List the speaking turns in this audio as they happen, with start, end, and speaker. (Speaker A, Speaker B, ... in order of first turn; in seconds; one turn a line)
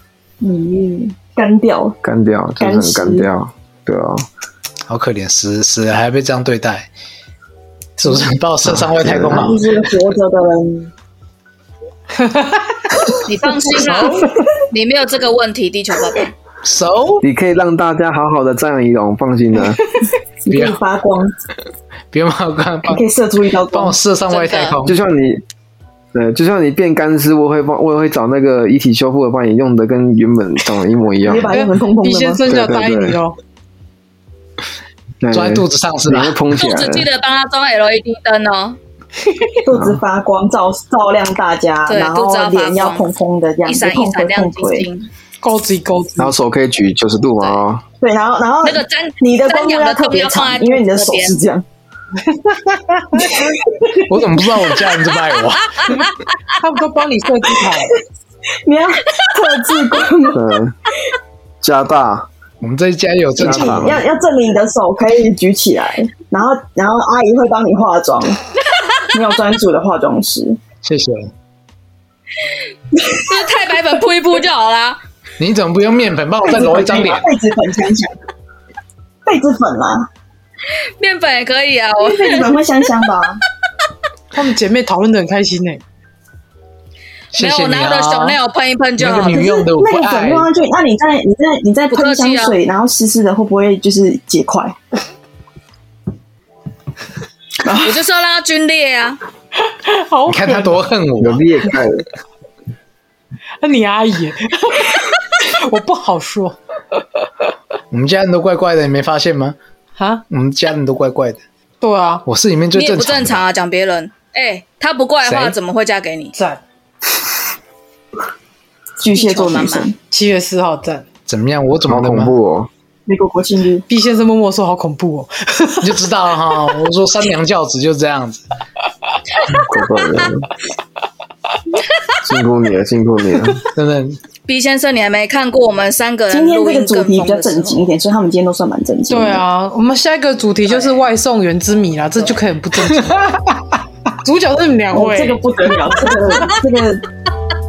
Speaker A: 0.4-2.0
Speaker B: 2.0-4.3
Speaker A: 2.6-3.3
Speaker C: 4.9-6.9
Speaker C: 8.0-9.6
Speaker B: 8.7-9.6
Speaker A: 9.3-10.9
Speaker D: 12.2-13.0
Speaker E: 13.2-16.3
Speaker D: 13.8-14.3
Speaker C: 13.8-14.2
Speaker C: 16.6-17.2
Speaker B: 17.2-19.8
Speaker A: 20.4-21.3
Speaker C: 20.5-20.8
Speaker C: 22.1-23.0
Speaker A: 22.9-24.0
Speaker C: 23.7-25.0
Speaker E: 24.3-24.8
Speaker B: 24.9-25.4
Speaker B: 26.1-31.5
Speaker A: 31.2-32.4
Speaker D: 31.5-33.4
Speaker B: 32.5-33.2
Speaker B: 35.2-37.1
Speaker C: 35.3-36.4
Speaker E: 36.6-38.8
Speaker A: 39.6-44.9
Speaker B: 39.7-40.0
Speaker E: 41.9-43.1
Speaker E: 43.6-45.1
Speaker D: 45.4-46.4
Speaker B: 46.2-47.8
Speaker A: 48.0-51.6
Speaker E: 48.6-51.4
Speaker D: 52.2-53.3
Speaker A: 53.1-54.0
Speaker C: 54.0-56.1
Speaker E: 55.3-56.1
Speaker D: 56.6-58.0
Speaker A: 58.7-60.4
Speaker B: 60.3-60.8
Speaker B: 61.6-62.3
Speaker C: 62.6-64.0
Speaker B: 63.4-64.0
Speaker A: 63.4-68.4
Speaker A: 69.1-70.6
Speaker C: 70.8-71.3
Speaker A: 72.9-73.2
Speaker E: 73.2-75.0
Speaker C: 75.4-77.3
Speaker A: 76.4-78.1
Speaker A: 79.3-80.1
Speaker E: 80.7-82.6
Speaker A: 82.0-83.4
Speaker D: 84.3-85.8
Speaker C: 87.3-88.4
Speaker E: 87.4-89.4
Speaker C: 89.0-90.5
Speaker A: 89.3-94.8
Speaker E: 91.9-92.6
Speaker A: 97.6-98.0
Speaker E: 97.7-99.2
Speaker D: 99.7-100.8
Speaker C: 100.3-101.4
Speaker B: 101.2-102.0
Speaker D: 103.6-106.6
Speaker C: 107.9-109.6
Speaker D: 110.0-110.2
Speaker C: 110.3-111.4
Speaker D: 111.8-112.2
Speaker C: 112.3-113.5
Speaker E: 112.7-116.3
Speaker C: 115.2-115.6
Speaker D: 116.3-116.6
Speaker A: 119.0-120.0
Speaker E: 119.1-119.9
Speaker D: 120.1-121.1
Speaker C: 121.3-122.3
Speaker B: 121.9-122.7
Speaker A: 123.1-123.8
Speaker D: 123.9-126.1
Speaker C: 125.8-128.4
Speaker B: 129.6-130.5
Speaker B: 132.2-133.6
Speaker C: 133.7-134.2
Speaker E: 134.5-137.9
Speaker A: 136.3-139.4
Speaker D: 139.1-146.1
Speaker E: 140.7-141.0
Speaker A: 144.9-147.1